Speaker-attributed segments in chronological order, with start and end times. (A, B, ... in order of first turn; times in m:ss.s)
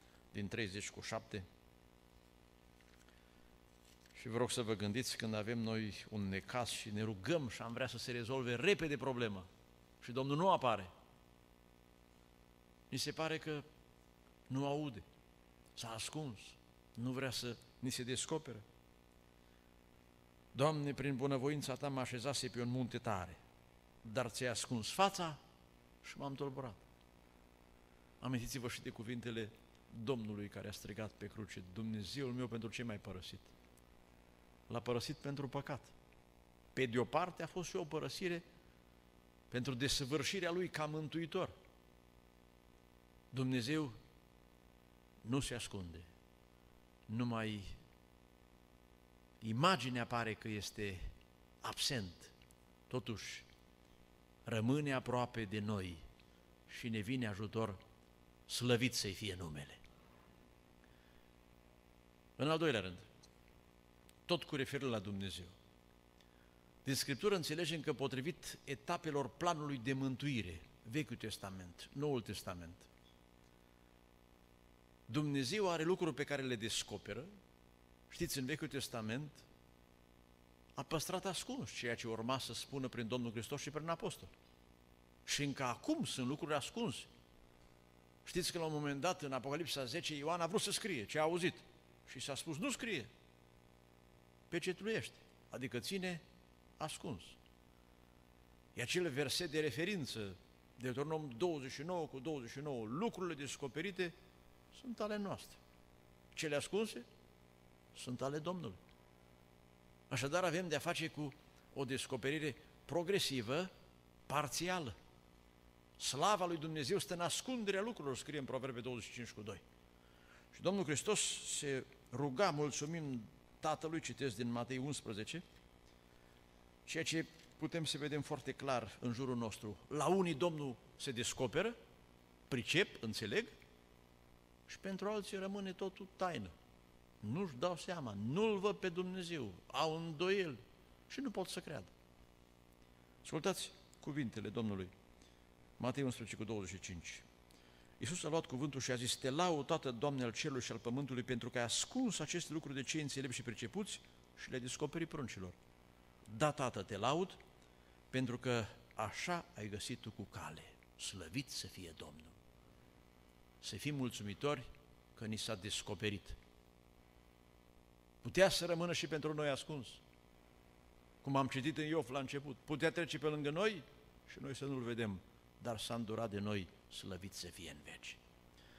0:00.3-0:01.5 A
0:04.2-0:09.5 A
0:10.0-0:10.9 A
0:12.9-0:13.6 A
0:14.5-0:15.0 A
0:15.8-0:18.6 A
0:20.5-0:23.4 A
0:24.0-0:25.4 A
0:26.0-0:26.8 A
0:28.2-0:33.5 A
0:34.7-0:35.9 A
0:36.8-0:38.4 A
0:39.5-0:41.6 A
0:43.3-0:44.0 A
0:45.2-0:46.1 A
0:47.1-0:47.8 A
0:49.4-0:51.1 A
0:51.6-0:52.4 A
0:52.9-0:53.5 A
0:54.5-0:56.0 A
0:56.7-0:57.8 A
0:58.5-0:59.8 A
1:02.4-1:03.1 A
1:04.3-1:05.6 A
1:06.8-1:12.9 A
1:15.1-1:17.3 A
1:18.1-1:19.4 A
1:20.8-1:24.3 A
1:25.3-1:27.1 A
1:28.2-1:33.1 A
1:34.5-1:36.2 A
1:36.8-1:37.4 A
1:38.8-1:44.1 A
1:44.7-1:45.6 A
1:46.4-1:47.1 A
1:47.9-1:48.8 A
1:50.1-1:53.7 A
1:54.3-1:55.0 A
1:56.0-1:59.6 A
2:00.5-2:05.4 A
2:06.9-2:11.8 A
2:12.5-2:13.5 A
2:14.7-2:16.5 A
2:17.2-2:21.9 A
2:23.2-2:24.9 A
2:25.8-2:27.2 A
2:28.0-2:35.6 A
2:36.3-2:37.4 A
2:38.1-2:42.4 A
2:43.6-2:46.4 A
2:48.2-2:50.0 A
2:51.2-2:58.2 A